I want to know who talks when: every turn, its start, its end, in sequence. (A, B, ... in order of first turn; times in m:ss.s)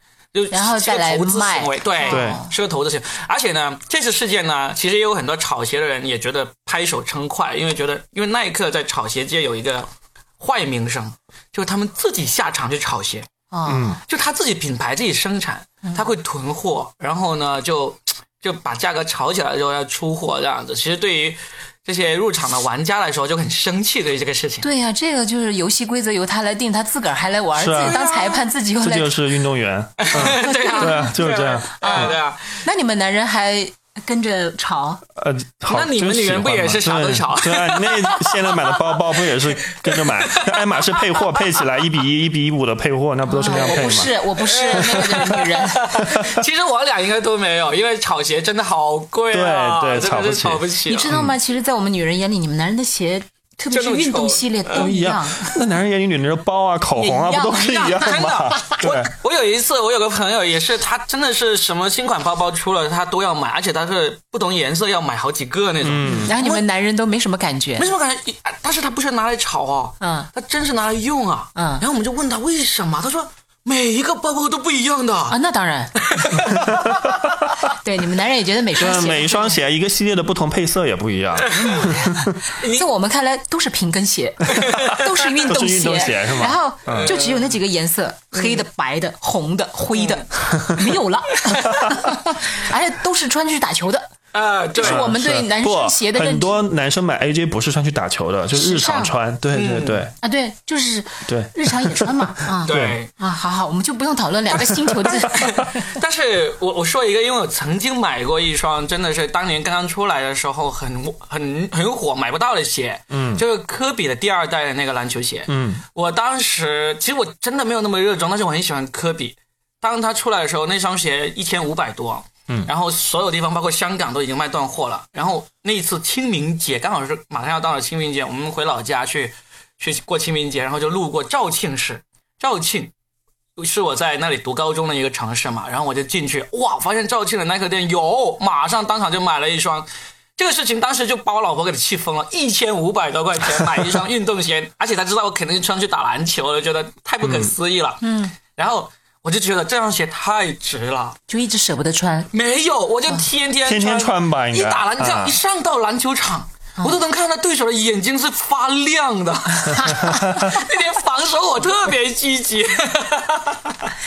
0:00.3-0:13.3 A
0:00.5-0:02.5 B
0:02.1-0:02.4 C
0:13.5-0:14.0 B
0:13.7-0:14.0 C
0:14.1-0:24.7 A
0:24.6-0:29.2 B
0:27.6-0:28.0 C
0:27.7-0:28.5 A
0:28.8-0:32.2 C
0:30.0-0:32.6 A
0:30.1-0:31.2 B
0:31.8-0:35.0 B
0:35.2-0:44.1 C
0:35.7-0:38.8 A
0:39.7-0:41.5 A
0:43.3-0:46.1 B
0:43.4-0:51.1 A
0:44.7-0:45.2 C
0:46.0-0:46.4 C
0:49.3-0:51.3 C
0:50.9-0:55.6 B
0:53.7-0:54.9 A
0:54.7-0:59.1 C
0:57.0-0:58.9 B
0:57.7-1:06.6 A
1:05.8-1:06.4 C
1:06.1-1:07.9 B
1:07.8-1:15.4 A
1:10.0-1:10.3 B
1:11.6-1:11.8 B
1:15.3-1:16.1 B
1:16.0-1:17.0 A
1:16.5-1:17.5 C
1:17.7-1:19.6 B
1:18.8-1:22.4 C
1:21.4-1:22.9 A
1:22.6-1:34.1 B
1:24.5-1:25.1 A
1:25.4-1:27.1 C
1:27.0-1:27.5 A
1:29.9-1:30.2 A
1:30.6-1:30.8 C
1:31.4-1:32.0 A
1:34.3-1:35.1 A
1:34.8-1:36.6 B
1:34.8-1:40.1 C
1:38.5-1:39.1 B
1:39.6-1:40.1 A
1:40.2-1:45.8 B
1:41.3-1:43.0 C
1:42.6-1:43.1 A
1:44.5-2:12.9 A
1:53.1-1:53.4 C
1:55.5-1:55.8 C
2:13.6-2:31.2 A
2:27.2-2:27.5 C
2:28.0-2:28.3 B
2:31.3-2:32.3 B
2:32.3-2:43.9 A
2:33.6-2:35.4 C
2:39.8-2:40.3 B